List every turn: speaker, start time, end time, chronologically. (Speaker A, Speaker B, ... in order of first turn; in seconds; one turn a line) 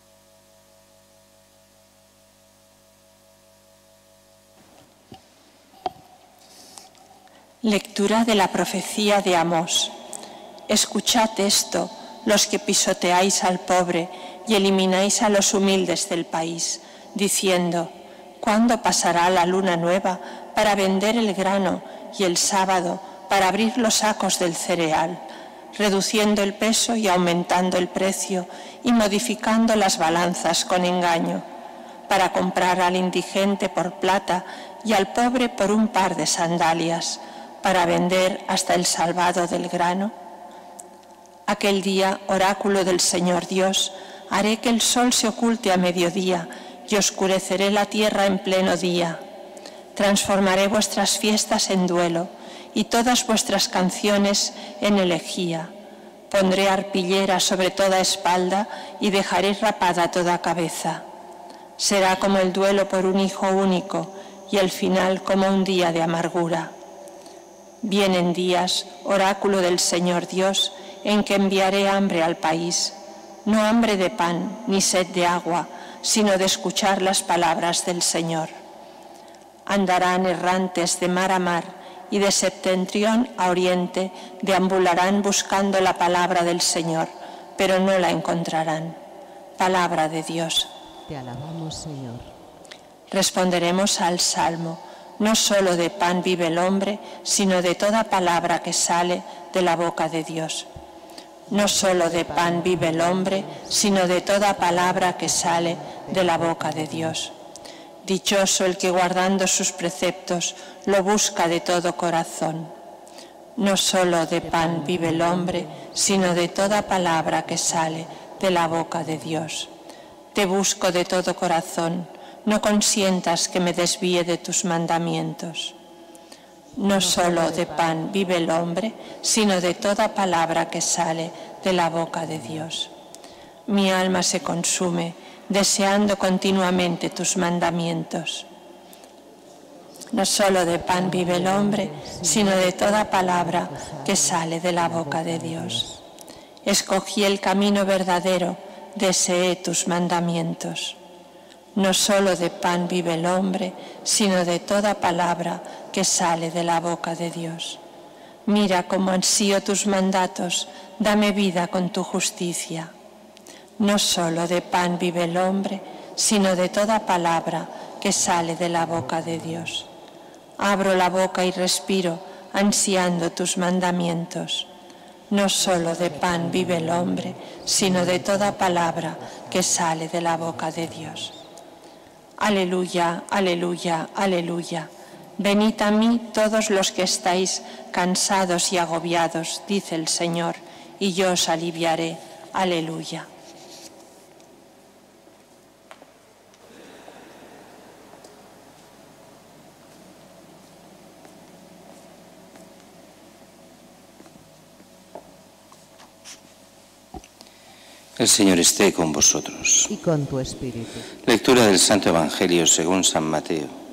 Speaker A: 7.6-9.9
Speaker A: 10.7-25.2
Speaker A: 25.7-31.4
Speaker A: 32.1-40.1
Speaker A: 41.5-49.2
Speaker A: 49.9-55.7
Speaker A: 56.3-61.0
Speaker A: 61.8-66.7
Speaker A: 67.8-78.5
Speaker A: 79.7-89.0
Speaker A: 89.6-90.7
Speaker B: 91.1-92.3
Speaker A: 93.1-100.7
Speaker B: 101.5-107.3
Speaker A: 101.5-107.3
Speaker A: 108.0-112.7
Speaker A: 113.6-119.7
Speaker B: 114.4-119.5
Speaker A: 120.3-125.7
Speaker A: 126.8-132.9
Speaker B: 126.8-128.1
Speaker B: 132.3-132.7
Speaker A: 133.7-138.5
Speaker A: 140.1-145.9
Speaker B: 140.9-146.0
Speaker A: 146.6-151.0
Speaker A: 151.7-157.8
Speaker A: 158.4-162.9
Speaker A: 163.8-169.9
Speaker B: 168.2-169.8
Speaker A: 170.6-174.7
Speaker A: 175.3-181.3
Speaker B: 175.6-181.4
Speaker A: 182.4-193.3
Speaker C: 208.2-209.9
Speaker B: 209.9-211.1
Speaker C: 211.2-213.7